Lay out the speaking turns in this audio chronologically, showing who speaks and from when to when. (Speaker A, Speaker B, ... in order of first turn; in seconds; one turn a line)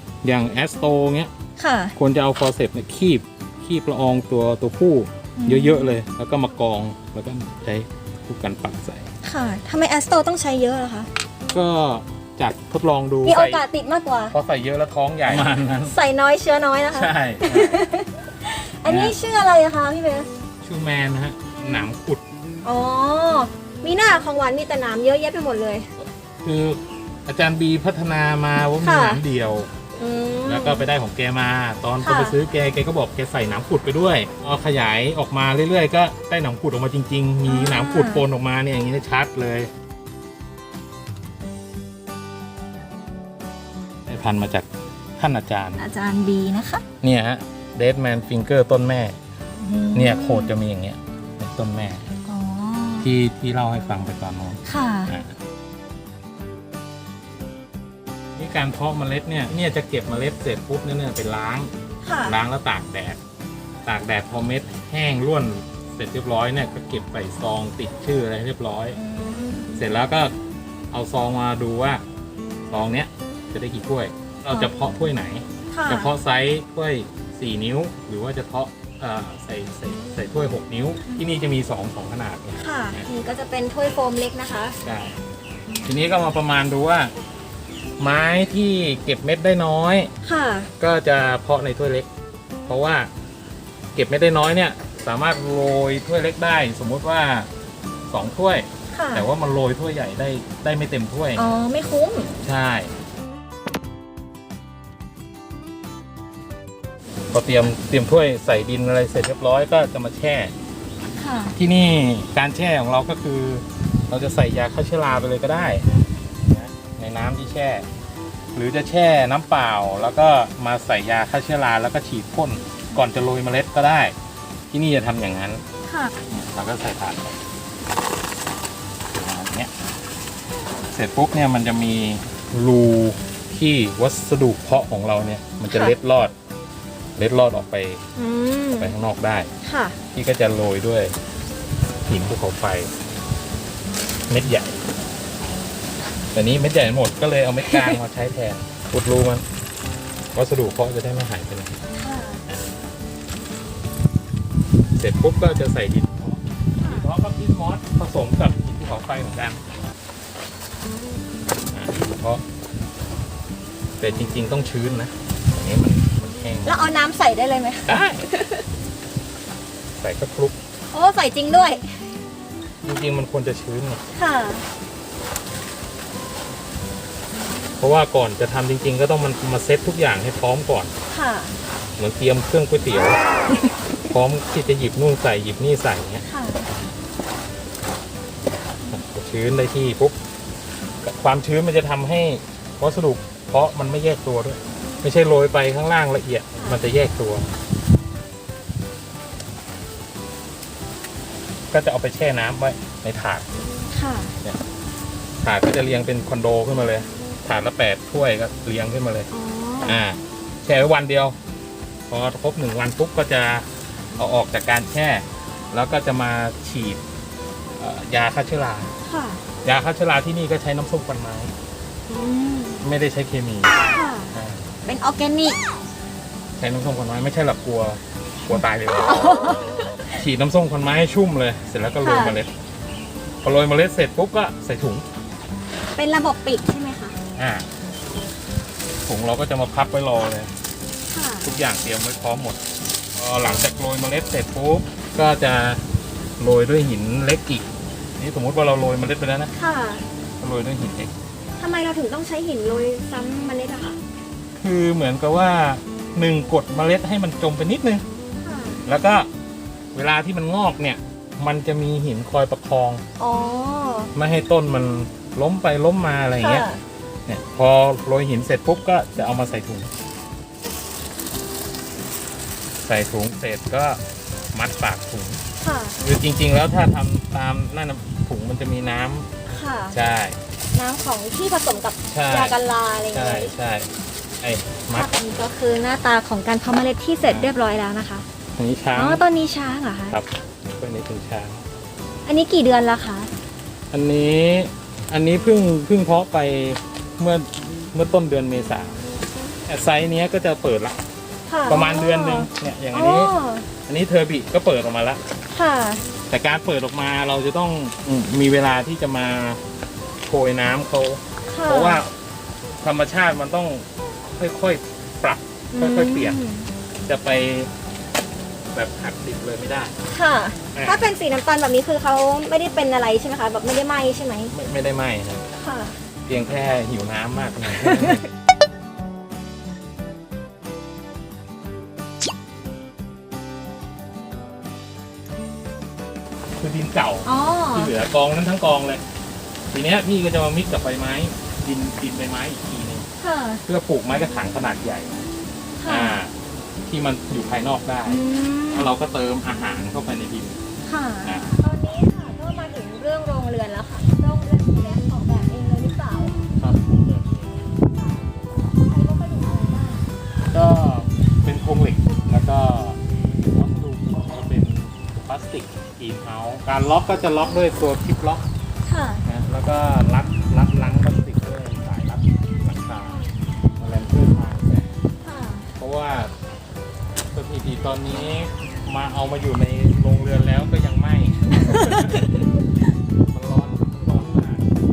Speaker A: 0.2-1.3
Speaker B: 1.6-1.9
Speaker A: 1.9-9.1
Speaker B: 5.4-6.0
Speaker B: 9.2-11.1
Speaker A: 11.5-13.6
Speaker B: 13.2-14.3
Speaker A: 14.3-15.9
Speaker B: 15.3-20.3
Speaker A: 16.9-17.8
Speaker A: 18.9-19.1
Speaker A: 20.6-22.2
Speaker B: 22.6-25.9
Speaker A: 26.0-29.7
Speaker B: 28.8-29.2
Speaker B: 30.0-30.9
Speaker A: 30.4-39.7
Speaker B: 32.0-32.3
Speaker B: 37.5-38.2
Speaker A: 44.1-44.7
Speaker A: 45.2-45.8
Speaker B: 45.8-46.8
Speaker A: 47.0-49.2
Speaker B: 49.6-50.5
Speaker A: 49.9-52.1
Speaker B: 52.2-53.1
Speaker A: 53.0-55.4
Speaker B: 54.6-55.1
Speaker A: 58.4-63.2
Speaker B: 62.0-62.4
Speaker A: 63.9-69.0
Speaker B: 68.9-69.7
Speaker A: 69.7-70.3
Speaker A: 70.9-72.0
Speaker A: 72.7-83.1
Speaker B: 75.7-76.1
Speaker B: 82.6-84.8
Speaker A: 84.8-85.2
Speaker A: 85.8-87.1
Speaker A: 88.0-90.1
Speaker B: 90.2-90.7
Speaker A: 90.8-92.1
Speaker A: 92.7-93.1
Speaker A: 94.0-97.5
Speaker A: 98.1-101.5
Speaker B: 98.9-99.3
Speaker B: 101.3-102.3
Speaker A: 102.4-102.9
Speaker A: 107.3-110.5
Speaker B: 111.2-111.5
Speaker A: 111.5-117.8
Speaker A: 118.5-124.2
Speaker A: 124.7-125.6
Speaker B: 125.9-126.1
Speaker A: 126.3-127.4
Speaker A: 129.1-129.7
Speaker A: 130.9-136.3
Speaker B: 135.7-135.9
Speaker A: 137.2-138.0
Speaker B: 138.2-138.9
Speaker A: 138.8-139.5
Speaker B: 139.6-139.9
Speaker A: 140.1-141.2
Speaker A: 142.1-142.9
Speaker A: 144.3-144.8
Speaker A: 146.3-149.4
Speaker A: 150.3-151.8
Speaker B: 151.9-152.4
Speaker A: 154.9-159.6
Speaker B: 156.8-157.1
Speaker A: 161.7-162.4
Speaker A: 164.0-166.9
Speaker B: 166.7-168.6
Speaker A: 167.8-168.3
Speaker A: 170.0-170.6
Speaker B: 170.9-172.1
Speaker A: 172.8-174.0
Speaker B: 174.1-174.7
Speaker A: 177.8-180.9
Speaker B: 181.1-181.5
Speaker A: 182.0-183.2
Speaker A: 184.1-186.2
Speaker B: 186.2-186.7
Speaker A: 188.9-190.2
Speaker A: 191.0-197.5
Speaker B: 196.6-196.8
Speaker A: 201.7-203.4
Speaker B: 203.9-204.3
Speaker A: 205.4-209.3
Speaker B: 209.3-210.0
Speaker A: 209.8-211.4
Speaker A: 212.1-217.0
Speaker A: 217.8-218.9
Speaker B: 219.0-219.4
Speaker A: 219.6-221.5
Speaker B: 222.1-222.8
Speaker A: 222.8-224.7
Speaker B: 223.9-224.3
Speaker B: 224.8-225.6
Speaker A: 226.6-229.4
Speaker B: 229.1-229.9
Speaker A: 230.1-232.5
Speaker B: 232.0-232.4
Speaker A: 233.4-235.1
Speaker B: 235.9-237.2
Speaker A: 237.3-237.7
Speaker A: 239.1-240.5
Speaker B: 241.1-241.5
Speaker A: 241.4-242.6
Speaker A: 243.1-245.8
Speaker A: 246.4-249.5
Speaker B: 249.5-250.0
Speaker A: 250.4-251.1
Speaker B: 251.6-254.0
Speaker A: 254.6-258.0
Speaker B: 258.4-258.8
Speaker A: 258.9-259.3
Speaker A: 259.9-263.0
Speaker B: 263.2-264.1
Speaker A: 264.1-266.7
Speaker B: 266.4-266.8
Speaker A: 267.3-269.9
Speaker A: 272.8-274.0
Speaker A: 274.5-275.4
Speaker B: 275.6-275.9
Speaker A: 276.0-279.4
Speaker B: 279.5-279.9
Speaker A: 279.9-280.4
Speaker B: 280.7-283.5
Speaker A: 282.1-282.6
Speaker A: 283.1-283.9
Speaker A: 284.4-285.1
Speaker B: 284.9-288.2
Speaker A: 287.2-287.5
Speaker A: 288.6-289.2
Speaker B: 288.9-290.2
Speaker A: 290.1-291.6
Speaker B: 292.2-293.3
Speaker A: 293.9-299.0
Speaker A: 299.6-301.0
Speaker B: 301.5-303.6
Speaker A: 301.7-303.3
Speaker A: 303.8-305.2
Speaker B: 305.5-306.0
Speaker A: 306.3-309.6
Speaker A: 310.2-312.1
Speaker B: 311.5-312.0
Speaker A: 312.8-316.4
Speaker B: 315.7-316.7
Speaker A: 317.1-317.7
Speaker A: 318.7-319.9
Speaker B: 320.1-324.5
Speaker A: 320.7-321.1
Speaker A: 324.5-325.4
Speaker B: 325.6-326.0
Speaker A: 326.3-328.3
Speaker B: 327.7-328.2
Speaker A: 336.6-339.0
Speaker B: 337.2-337.9
Speaker A: 339.7-343.1
Speaker B: 343.2-343.6
Speaker A: 343.6-345.2
Speaker B: 345.8-346.2
Speaker A: 345.9-346.3
Speaker A: 346.9-350.6
Speaker B: 348.0-348.9
Speaker B: 350.9-356.3
Speaker A: 351.2-351.5
Speaker A: 356.6-357.7
Speaker B: 357.8-360.1
Speaker A: 360.5-368.4
Speaker B: 368.9-369.2
Speaker A: 369.2-374.9
Speaker B: 375.2-375.7
Speaker A: 375.8-376.3
Speaker A: 377.3-382.5
Speaker B: 381.6-382.4
Speaker A: 383.3-384.7